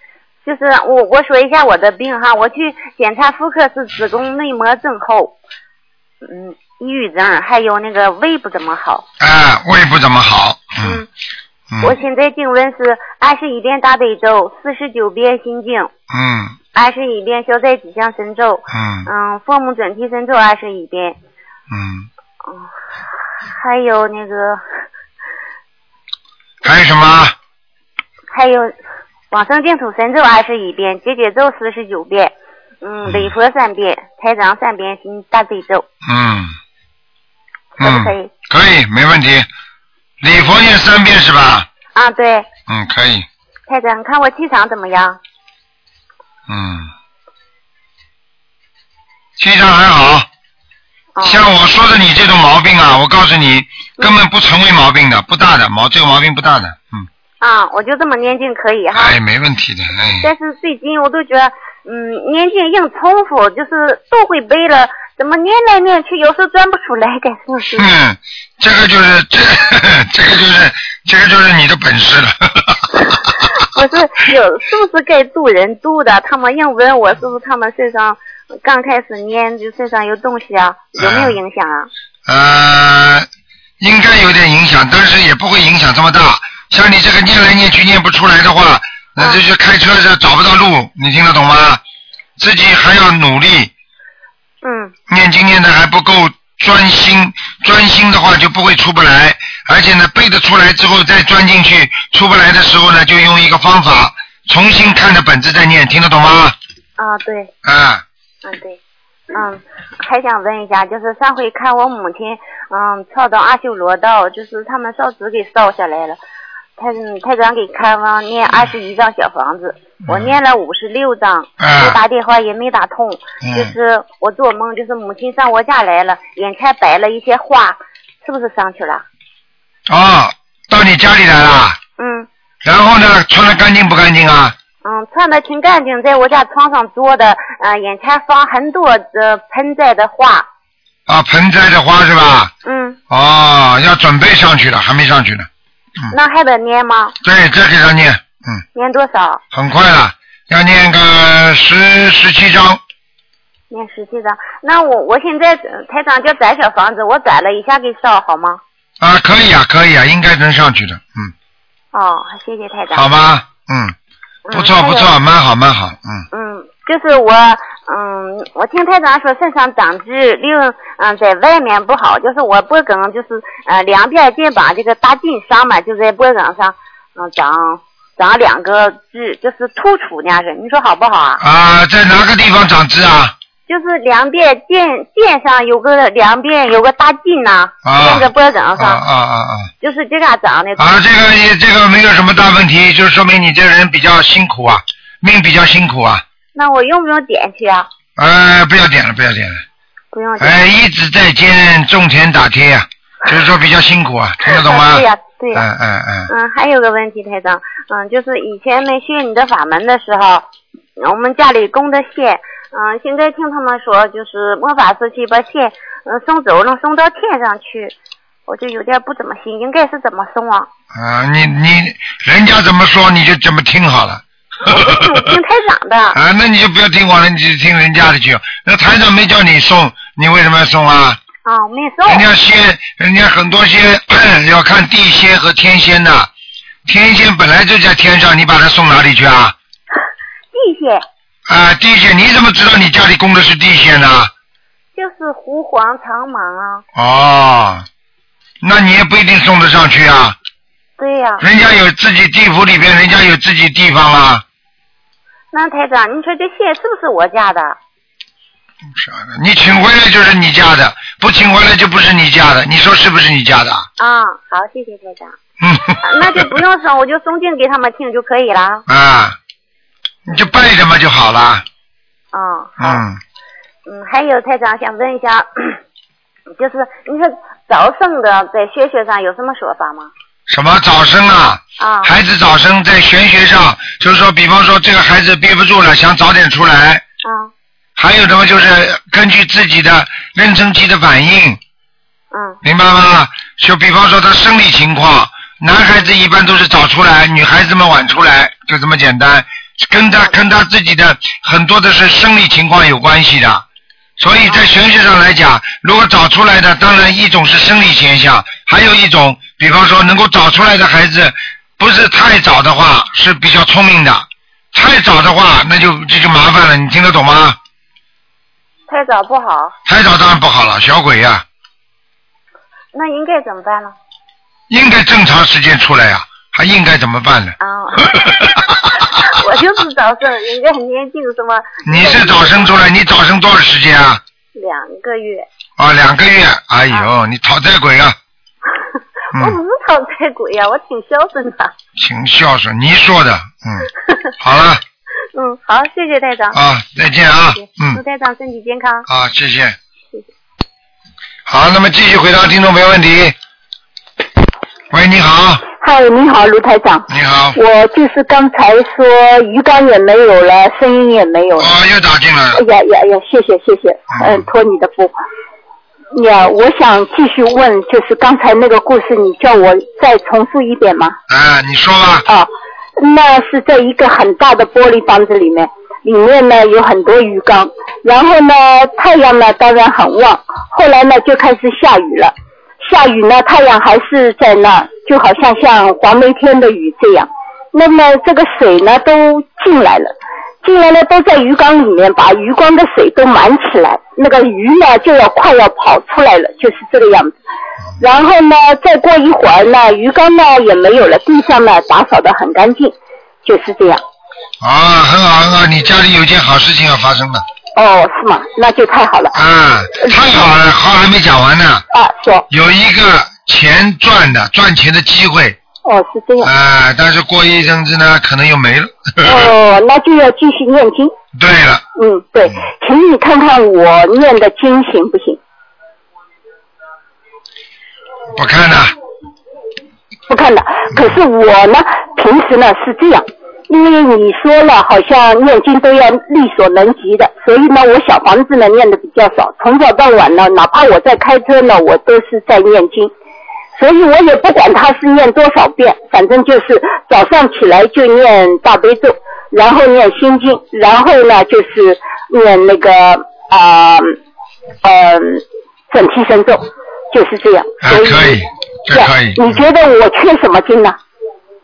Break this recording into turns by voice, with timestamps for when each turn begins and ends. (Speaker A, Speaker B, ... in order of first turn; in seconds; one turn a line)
Speaker A: 0.4-5.3
Speaker A: 6.2-9.1
Speaker B: 9.2-11.0
Speaker A: 10.8-11.1
Speaker B: 11.7-12.0
Speaker A: 11.8-15.9
Speaker B: 16.1-16.5
Speaker A: 16.7-21.2
Speaker B: 18.7-19.1
Speaker B: 21.7-22.1
Speaker A: 23.4-24.6
Speaker B: 26.6-27.3
Speaker A: 28.3-28.7
Speaker A: 29.3-35.9
Speaker B: 33.0-33.3
Speaker B: 36.0-36.5
Speaker A: 37.8-38.3
Speaker B: 37.8-39.5
Speaker B: 40.2-41.7
Speaker A: 41.9-42.5
Speaker B: 42.7-43.2
Speaker A: 43.7-45.2
Speaker B: 46.5-46.9
Speaker B: 49.4-50.3
Speaker A: 51.1-51.5
Speaker B: 51.2-57.1
Speaker A: 57.4-59.2
Speaker B: 58.9-60.3
Speaker A: 60.2-67.9
Speaker B: 67.8-73.4
Speaker A: 73.6-81.9
Speaker B: 81.0-81.4
Speaker B: 82.3-83.3
Speaker B: 83.8-91.8
Speaker B: 92.4-93.7
Speaker A: 94.6-94.9
Speaker B: 95.1-106.5
Speaker A: 107.0-107.5
Speaker B: 107.6-108.0
Speaker A: 108.4-108.8
Speaker A: 109.3-116.2
Speaker A: 116.8-129.0
Speaker B: 120.0-120.4
Speaker B: 121.6-122.0
Speaker B: 123.4-123.7
Speaker B: 129.9-131.8
Speaker A: 132.0-132.3
Speaker B: 132.6-134.5
Speaker A: 134.8-140.5
Speaker B: 141.1-142.5
Speaker A: 142.6-143.0
Speaker B: 143.1-145.5
Speaker A: 146.1-147.2
Speaker B: 147.2-148.6
Speaker A: 148.7-149.4
Speaker B: 149.5-152.8
Speaker A: 153.7-158.6
Speaker B: 159.0-161.3
Speaker A: 161.9-163.1
Speaker B: 162.9-163.9
Speaker A: 164.4-165.1
Speaker B: 164.5-166.2
Speaker A: 166.3-181.4
Speaker B: 181.4-183.3
Speaker A: 183.7-189.0
Speaker B: 187.8-189.7
Speaker A: 189.8-191.0
Speaker B: 190.8-196.2
Speaker A: 196.5-197.9
Speaker B: 198.2-199.6
Speaker A: 200.1-200.6
Speaker B: 200.4-206.3
Speaker A: 204.4-205.7
Speaker A: 206.3-210.4
Speaker A: 211.0-217.9
Speaker A: 218.5-220.7
Speaker B: 220.9-225.4
Speaker A: 224.7-226.2
Speaker B: 226.1-231.2
Speaker A: 231.4-232.3
Speaker B: 232.1-236.3
Speaker B: 236.8-239.5
Speaker A: 240.5-241.0
Speaker B: 241.5-244.3
Speaker A: 244.9-246.8
Speaker B: 246.9-247.8
Speaker B: 248.6-250.3
Speaker A: 251.0-251.4
Speaker B: 251.4-254.4
Speaker A: 255.5-257.8
Speaker B: 258.9-263.9
Speaker A: 264.0-265.3
Speaker B: 265.6-266.6
Speaker A: 266.0-268.8
Speaker B: 268.9-269.4
Speaker B: 270.3-271.6
Speaker A: 272.3-273.0
Speaker B: 272.8-273.2
Speaker A: 273.9-275.8
Speaker A: 276.6-280.1
Speaker B: 280.5-287.0
Speaker A: 281.8-282.1
Speaker A: 287.2-287.5
Speaker B: 288.0-291.6
Speaker A: 292.3-292.6
Speaker B: 292.6-303.6
Speaker B: 304.2-317.6
Speaker A: 318.9-319.7
Speaker B: 319.9-321.4
Speaker A: 322.9-323.9
Speaker B: 324.7-329.0
Speaker A: 327.6-328.5
Speaker A: 329.2-332.7
Speaker B: 331.8-334.2
Speaker A: 334.5-335.4
Speaker B: 335.8-338.2
Speaker A: 339.3-341.7
Speaker B: 342.0-343.9
Speaker B: 344.4-344.8
Speaker A: 345.3-346.6
Speaker B: 346.5-348.0
Speaker A: 347.5-349.1
Speaker B: 349.1-349.8
Speaker B: 351.4-353.4
Speaker B: 354.9-355.7
Speaker C: 355.7-361.7
Speaker B: 357.1-357.6
Speaker B: 361.6-362.6
Speaker C: 362.5-365.1
Speaker B: 364.1-364.4
Speaker C: 366.1-371.1
Speaker B: 371.3-372.3
Speaker C: 372.3-397.3
Speaker C: 398.0-404.0
Speaker B: 404.6-407.4
Speaker C: 407.8-409.4
Speaker B: 409.3-411.8
Speaker C: 411.9-412.4
Speaker B: 412.5-415.6
Speaker C: 415.8-416.5
Speaker B: 416.4-419.5
Speaker C: 419.2-421.1
Speaker B: 421.3-421.8
Speaker C: 421.9-425.4
Speaker B: 428.3-428.9
Speaker C: 430.3-443.1
Speaker C: 443.8-454.2
Speaker C: 454.8-461.0
Speaker B: 457.8-459.6